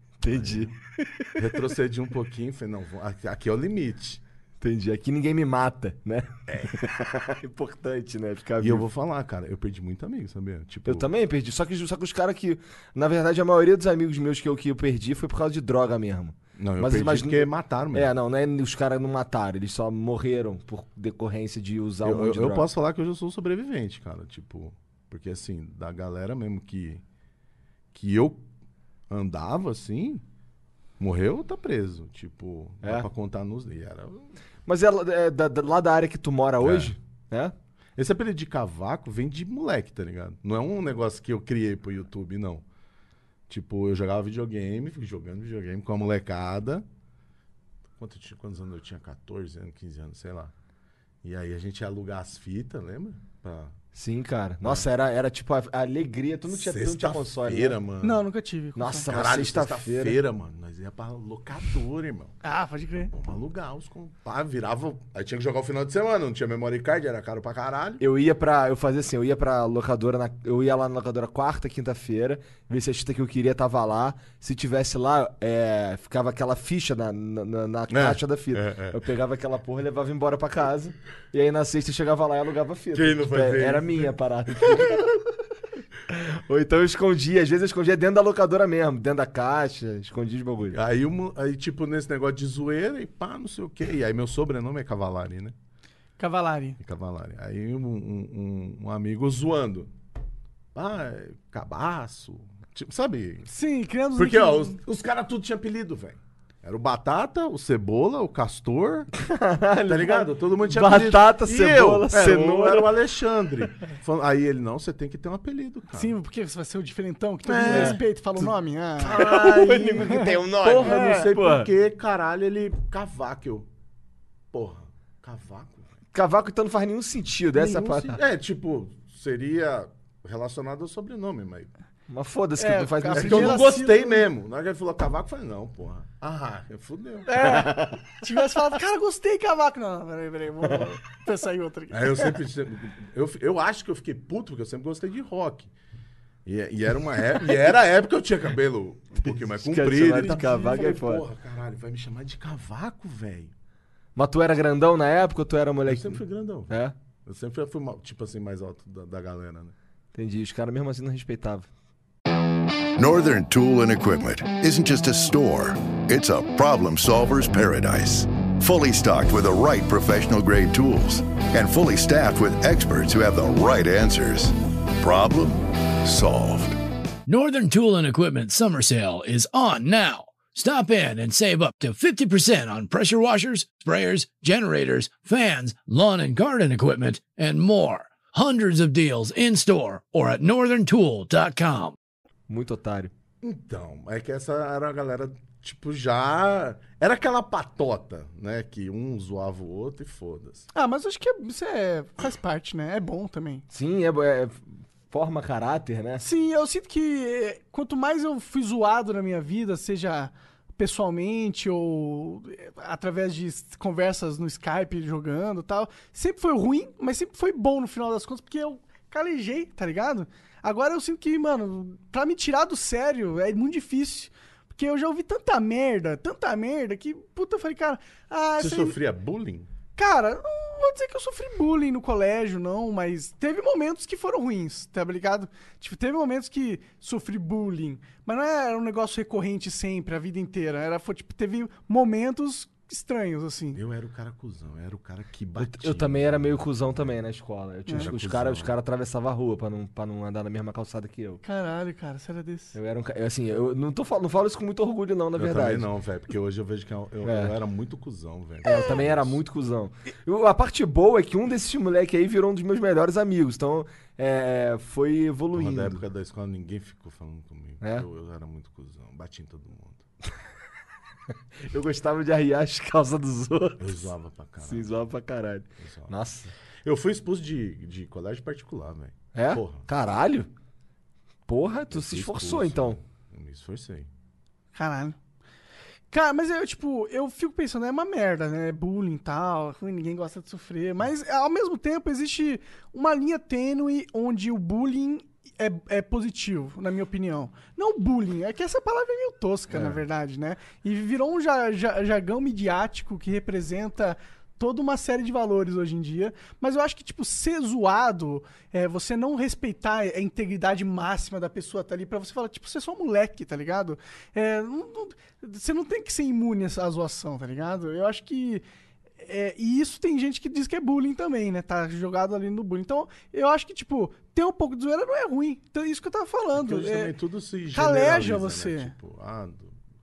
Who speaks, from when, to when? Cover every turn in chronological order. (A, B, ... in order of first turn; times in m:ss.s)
0:00.2-0:01.3 A
0:00.3-0:00.7 B
0:01.4-0:04.2 B
0:04.6-0:08.8 A
0:08.6-0:11.1 B
0:10.8-0:22.7 A
0:16.6-0:18.1 B
0:22.0-0:27.0 B
0:27.9-0:28.4 B
0:29.1-0:30.2 B
0:31.0-0:34.3 B
0:32.8-0:33.1 A
0:34.6-0:37.5 A
0:36.6-0:36.9 B
0:38.0-0:42.6 B
0:43.5-0:46.8 B
0:48.0-0:50.5 B
0:51.2-0:53.7 B
0:53.9-0:57.8 A
0:56.5-0:58.2 B
0:58.0-0:59.1 C
0:58.7-1:00.2 A
0:59.1-1:02.3 B
1:02.4-1:03.1 C
1:03.1-1:08.0 B
1:08.0-1:25.1 A
1:17.9-1:19.0 B
1:22.9-1:25.0 B
1:26.1-1:30.8 A
1:30.7-1:35.5 B
1:36.2-1:36.8 C
1:36.8-1:39.9 B
1:40.7-1:43.5 B
1:43.5-1:44.8 C
1:44.1-1:49.1 B
1:49.2-1:52.9 A
1:49.9-1:56.2 B
1:55.9-1:59.3 C
1:57.4-2:03.7 B
1:57.6-1:58.0 A
1:59.0-2:01.7 A
2:00.8-2:01.3 C
2:04.5-2:05.9 B
2:06.1-2:08.2 A
2:07.5-2:11.7 B
2:12.1-2:13.6 A
2:12.6-2:14.2 C
2:13.1-2:17.6 B
2:17.3-2:22.3 C
2:17.4-2:18.2 A
2:20.6-2:20.9 A
2:21.9-2:25.7 B
2:26.4-2:33.5 B
2:29.2-2:31.2 A
2:30.2-2:31.0 C
2:34.2-2:36.9 A
2:35.8-2:39.7 B
2:40.1-2:41.7 A
2:43.0-2:56.8 D
2:57.2-3:11.9 E
3:12.5-3:13.1 A
3:13.4-3:20.7 B
3:20.7-3:23.6 C
3:23.7-3:26.2 A
3:26.2-3:49.0 C
3:48.6-3:49.7 B
3:50.0-4:03.8 C
4:03.7-4:07.0 B
4:05.6-4:11.4 A
4:07.9-4:08.7 B
4:11.4-4:12.7 C
4:12.7-4:15.9 A
4:15.4-4:19.4 B
4:17.2-4:17.5 A
4:18.6-4:26.0 A
4:18.7-4:19.0 C
4:25.5-4:30.0 B
4:27.8-4:28.0 A
4:31.6-4:34.0 A
4:33.8-4:34.9 B
4:34.6-4:36.5 A
4:35.8-4:36.1 B
4:36.8-4:39.8 B
4:39.3-4:40.5 A
4:41.5-4:43.0 A
4:41.9-4:44.1 B
4:44.7-4:45.2 C
4:46.1-5:18.6 C
4:59.7-5:00.0 B
5:19.2-5:27.1 C
5:26.5-5:29.8 B
5:27.7-5:28.9 C